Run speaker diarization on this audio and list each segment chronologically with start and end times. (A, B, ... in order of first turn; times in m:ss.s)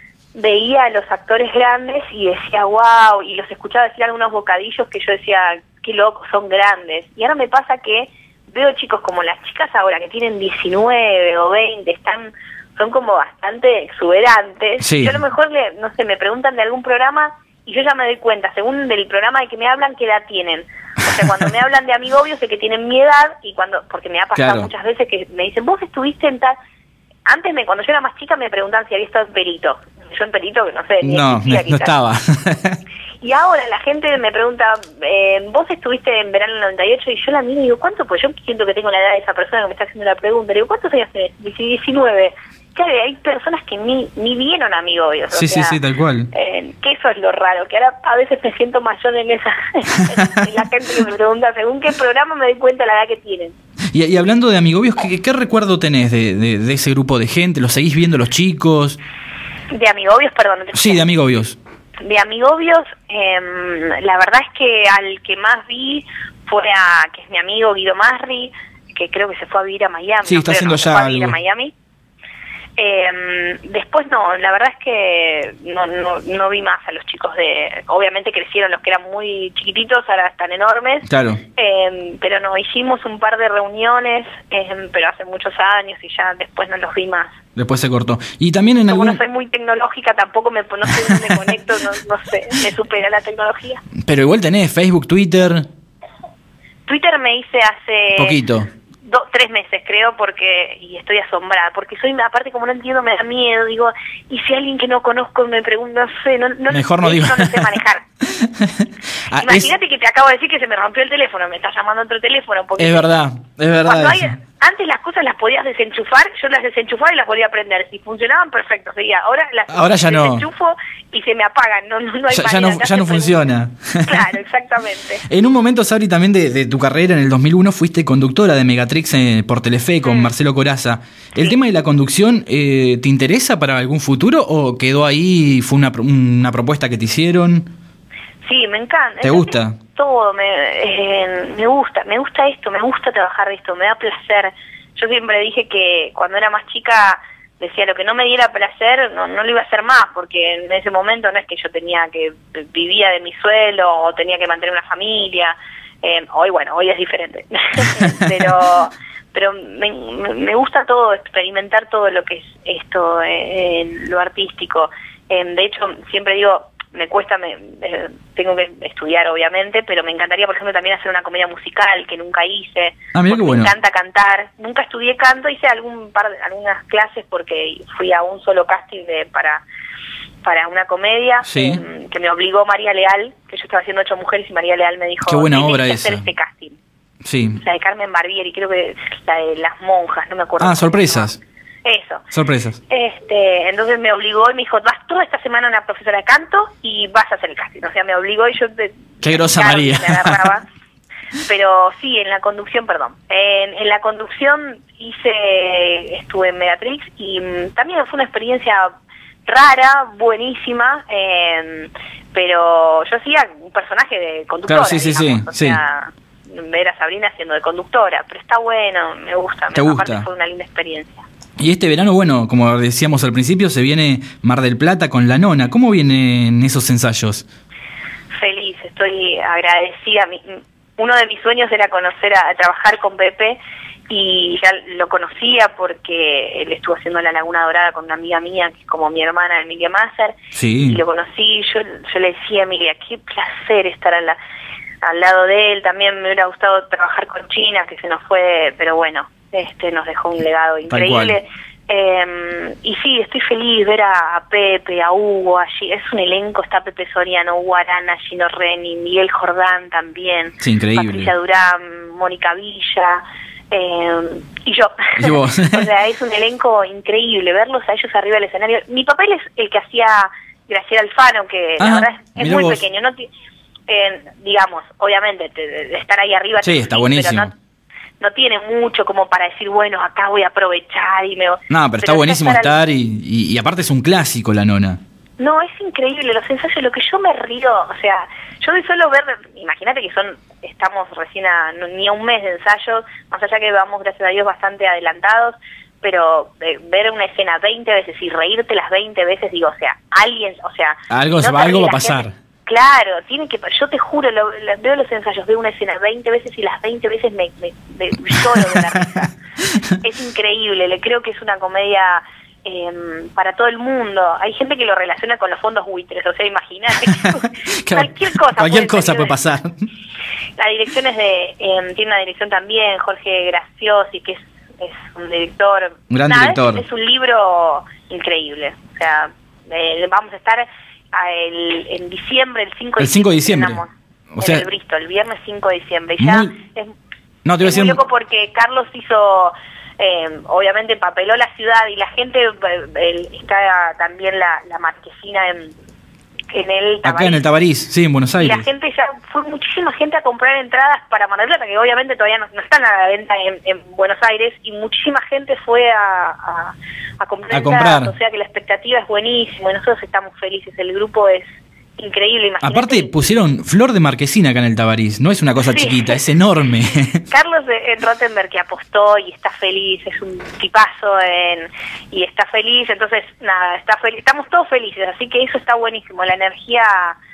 0:00.3-0:26.5 A
0:14.8-0:15.2 B
0:24.3-0:24.7 B
0:27.3-0:31.9 A
0:31.0-0:32.8 B
0:33.2-0:45.8 A
0:45.3-0:46.3 B
0:46.3-0:53.5 A
0:53.9-0:59.0 B
0:59.7-1:01.0 A
1:00.7-1:01.6 B
1:02.0-1:11.7 A
1:10.2-1:11.4 B
1:12.8-1:27.3 A
1:21.1-1:21.4 B
1:27.6-1:29.2 B
1:28.9-1:33.8 A
1:30.9-1:31.5 B
1:34.0-1:35.6 B
1:36.8-1:38.4 A
1:38.1-1:38.7 B
1:39.0-1:48.0 A
1:46.7-1:47.7 B
1:48.3-1:49.7 B
1:49.4-1:53.1 A
1:52.8-1:54.3 B
1:53.8-2:03.4 A
1:59.7-2:00.4 B
2:02.3-2:04.3 B
2:04.0-2:05.2 A
2:05.3-2:17.7 B
2:10.0-2:10.3 A
2:18.4-2:59.6 A
2:19.2-2:19.8 B
2:38.0-2:38.4 B
2:53.1-2:53.7 B
3:00.4-3:06.8 A
3:01.4-3:01.8 B
3:05.3-3:06.2 B
3:07.2-3:07.6 B
3:07.6-3:11.3 A
3:10.6-3:11.4 B
3:11.8-3:12.2 A
3:12.3-3:12.8 B
3:12.9-3:20.6 A
3:19.2-3:20.5 B
3:21.4-3:28.9 A
3:29.4-3:41.2 A
3:34.7-3:35.8 B
3:39.7-3:40.3 B
3:41.6-3:47.4 B
3:48.4-3:53.6 A
3:54.1-4:04.4 A
4:00.5-4:01.0 B
4:05.0-4:33.3 A
4:10.9-4:11.4 B
4:20.6-4:21.3 B
4:25.2-4:25.9 B
4:31.8-4:32.8 B
4:33.9-4:37.5 A
4:36.6-4:37.5 B
4:38.2-4:42.8 A
4:41.7-4:45.0 B
4:45.4-5:09.3 A
5:01.1-5:02.3 B
5:08.4-5:09.9 B
5:10.0-5:19.4 A
5:17.8-5:19.8 B
5:20.6-5:36.9 A
5:26.1-5:26.8 B
5:33.0-5:34.7 B
5:36.2-5:36.5 B
5:37.4-5:38.0 B
5:37.6-5:45.7 A
5:46.5-5:47.4 A
5:47.0-5:48.7 B
5:48.4-6:01.4 A
5:57.5-5:58.1 B
6:02.0-6:03.1 A
6:02.6-6:07.2 B
6:05.7-6:06.2 A
6:07.3-6:17.2 A